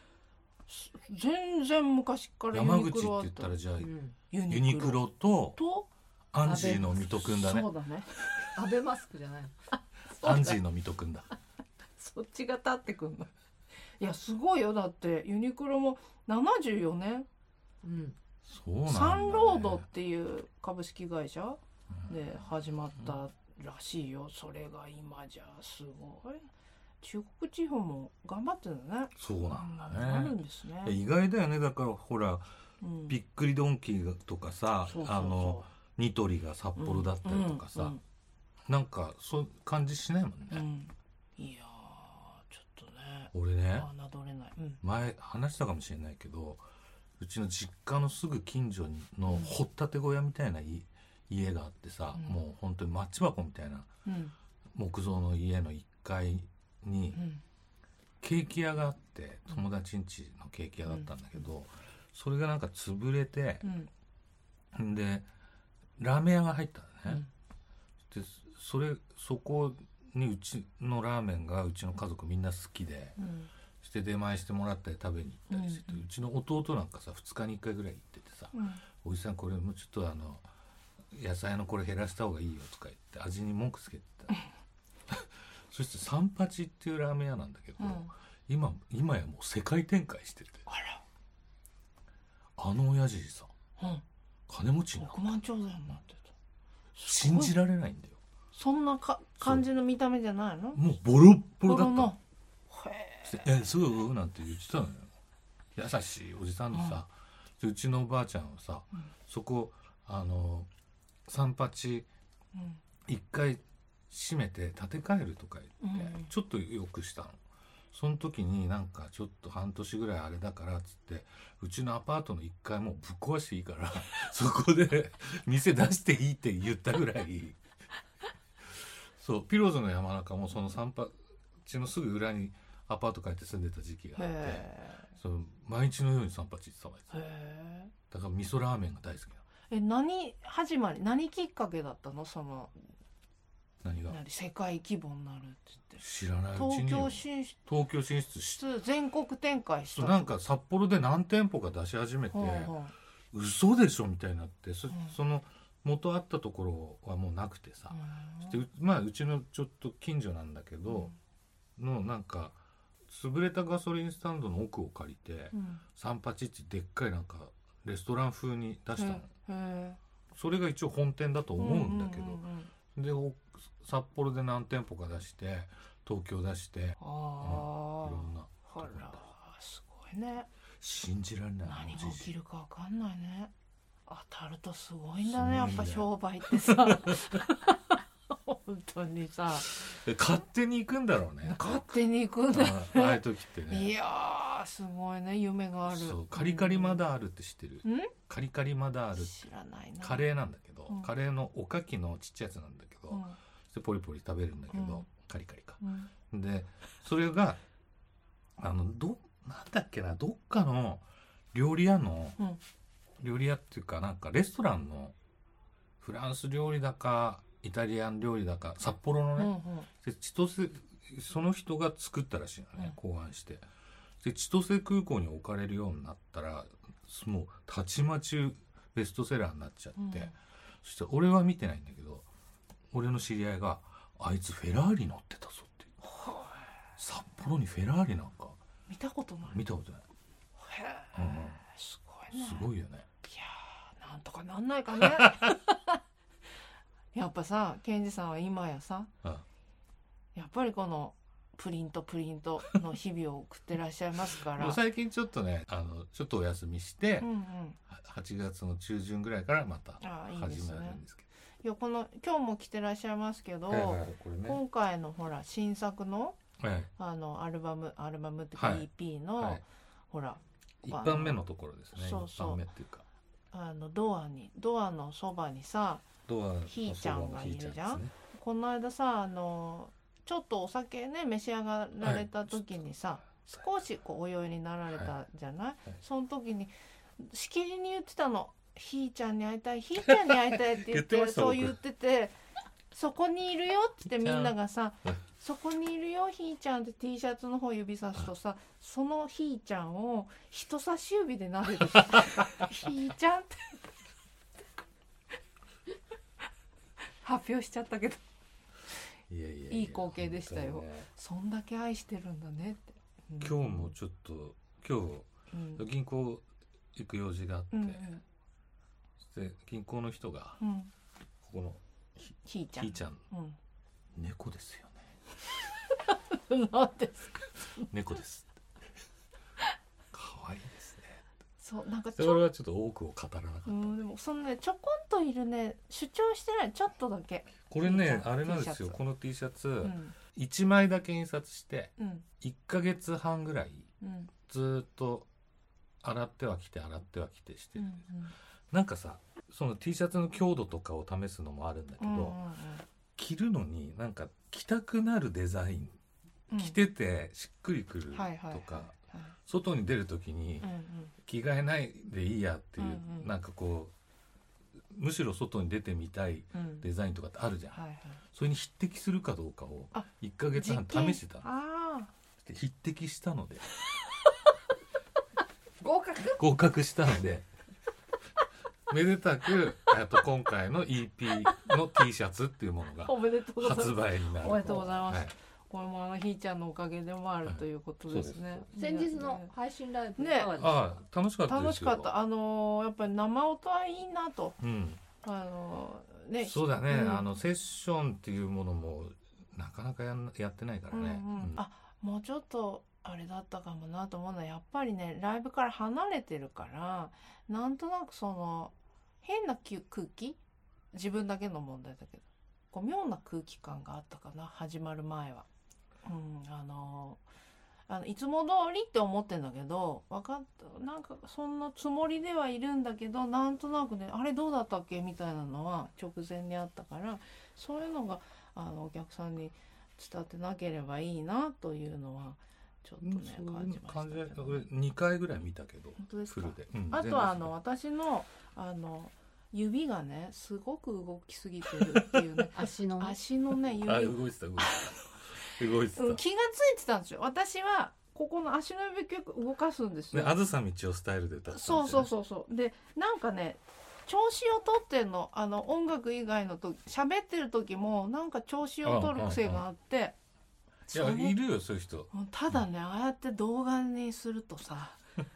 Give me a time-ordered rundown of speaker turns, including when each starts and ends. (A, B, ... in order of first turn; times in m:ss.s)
0:00.7-0:03.6 A
0:02.5-0:03.9 B
0:03.8-0:04.2 C
0:04.3-0:05.9 A
0:04.5-0:05.6 B
0:06.3-0:07.7 B
0:06.4-0:07.1 C
0:06.5-0:08.5 A
0:08.5-0:09.6 C
0:10.2-0:10.6 A
0:10.2-0:11.3 B
0:12.0-0:13.3 A
0:14.0-0:17.3 A
0:17.8-0:18.2 C
0:18.5-0:19.9 B
0:18.9-0:26.5 A
0:27.0-0:31.0 A
0:29.2-0:32.5 B
0:32.8-0:33.2 A
0:33.1-0:38.0 B
0:34.9-0:35.7 A
0:36.8-0:38.0 A
0:38.7-0:40.6 B
0:40.5-0:44.8 A
0:43.3-0:43.9 B
0:44.8-0:46.6 B
0:47.2-0:53.9 B
0:52.2-0:52.4 A
0:54.0-0:54.4 A
0:54.7-0:57.2 B
0:57.1-0:57.4 A
0:58.2-1:03.7 B
1:03.6-1:03.9 A
1:04.7-1:05.3 B
1:06.0-1:07.2 B
1:08.1-1:13.2 B
1:13.2-1:13.5 A
1:13.8-1:20.4 B
1:15.5-1:16.0 A
1:18.5-1:18.8 A
1:21.1-1:24.3 B
1:25.1-1:30.7 B
1:27.8-1:28.1 A
1:30.7-1:31.0 A
1:32.6-1:33.5 B
1:33.8-1:34.0 A
1:34.5-1:35.2 B
1:35.0-1:36.3 A
1:37.0-1:37.6 A
1:37.1-1:38.2 B
1:38.5-1:40.8 A
1:39.4-1:39.6 B
1:40.8-1:42.1 B
1:41.6-1:43.5 A
1:43.3-1:45.1 B
1:45.8-1:50.7 B
1:46.7-1:47.0 A
1:51.3-1:52.1 B
1:52.6-1:52.8 A
1:53.1-1:57.4 B
1:55.8-1:56.3 A
1:57.9-2:07.6 B
2:08.7-2:17.1 B
2:14.2-2:15.1 A
2:17.1-2:17.9 A
2:18.1-2:19.4 B
2:19.7-2:22.8 A
2:23.8-2:24.2 B
2:24.1-2:27.6 A
2:26.0-2:28.6 B
2:28.6-2:30.4 A
2:30.0-2:32.7 B
2:32.3-2:32.9 A
2:33.3-2:41.1 B
2:34.9-2:35.2 A
2:37.9-2:38.6 A
2:40.9-2:41.2 A
2:41.8-2:42.6 B
2:43.1-2:49.3 B
2:45.5-2:45.8 A
2:49.0-2:50.0 A
2:50.3-2:59.2 B
2:51.6-2:52.7 A
2:57.0-3:00.5 A
3:00.8-3:02.3 B
3:01.6-3:03.5 A
3:04.1-3:09.7 A
3:05.2-3:07.4 B
3:09.7-3:11.9 B
3:11.4-3:17.0 A
3:12.5-3:13.9 B
3:15.9-3:19.4 B
3:17.8-3:18.1 A
3:19.2-3:20.2 A
3:20.0-3:27.6 B
3:23.1-3:23.4 A
3:24.7-3:25.1 A
3:25.8-3:26.1 A
3:28.6-3:32.4 B
3:33.2-3:35.2 B
3:36.0-3:43.6 B
3:39.4-3:39.9 A
3:44.2-3:52.3 B
3:50.0-3:50.3 A
3:52.9-3:55.9 B
3:56.0-3:56.7 A
3:57.0-3:58.6 B
3:58.9-3:59.6 A
3:59.5-4:00.1 B
4:00.6-4:02.7 A
4:01.1-4:01.6 B
4:02.3-4:03.1 B
4:03.2-4:06.0 A
4:07.1-4:09.1 A
4:10.4-4:14.8 A
4:14.5-4:17.3 B
4:17.2-4:17.8 A
4:17.9-4:21.3 B
4:20.0-4:21.0 A
4:21.6-4:26.4 A
4:23.7-4:24.6 B
4:26.6-4:26.9 B
4:27.0-4:31.4 A
4:28.6-4:29.6 B
4:30.8-4:33.0 B
4:32.0-4:32.6 A
4:33.5-4:36.1 A
4:36.3-4:38.1 B
4:36.7-4:52.3 A
4:42.0-4:42.5 B
4:50.1-4:51.8 B
4:52.9-5:03.8 A
4:54.1-4:54.6 B
5:07.2-5:08.2 A
5:09.3-5:11.1 B
5:09.7-5:14.0 A
5:13.4-5:16.4 B
5:15.5-5:15.8 A
5:17.0-5:18.2 B
5:17.7-5:18.2 A
5:19.2-5:20.6 B
5:20.6-5:20.9 A
5:21.4-5:23.2 B
5:22.4-5:23.6 A
5:24.1-5:25.2 B
5:25.9-5:27.9 A
5:27.9-5:28.5 B
5:30.1-5:31.2 B
5:31.6-5:32.4 A
5:32.2-5:33.9 B
5:33.7-5:39.0 A
5:37.7-5:43.9 B
5:39.8-5:40.2 A
5:42.0-5:42.3 A
5:44.0-5:44.3 A
5:44.5-5:45.3 B
5:46.0-5:48.0 B
5:47.8-5:48.4 A
5:48.7-5:52.4 B
5:52.0-5:52.8 A
5:53.2-5:56.0 B
5:56.5-5:56.8 A
5:56.5-6:00.7 B
5:58.1-5:59.4 A
6:00.6-6:01.1 A
6:01.2-6:03.9 B
6:02.8-6:03.3 A
6:04.9-6:07.8 B
6:06.5-6:06.9 A
6:07.7-6:08.2 A
6:08.3-6:11.5 B
6:09.9-6:12.1 A
6:12.4-6:13.6 B
6:15.8-6:16.4 C
6:16.4-6:17.5 B
6:18.9-6:25.3 B
6:23.0-6:29.5 A
6:27.5-6:28.6 B
6:28.7-6:30.9 C
6:30.2-6:30.6 A
6:30.5-6:32.1 B
6:31.5-6:34.6 A
6:34.6-6:35.0 B
6:35.2-6:37.3 A
6:36.4-6:41.6 B
6:40.9-6:48.7 A
6:49.2-6:50.4 A
6:50.9-6:55.5 A
6:56.0-6:57.2 A
6:57.9-7:14.7 A
7:13.0-7:17.5 B
7:16.0-7:24.8 A
7:21.9-7:22.2 B
7:22.5-7:23.2 C
7:23.8-7:26.2 B
7:26.0-7:30.4 A
7:30.1-7:32.1 B
7:31.5-7:40.2 A
7:38.8-7:39.6 B
7:40.9-7:41.4 A
7:40.9-7:42.1 B
7:42.1-7:45.0 A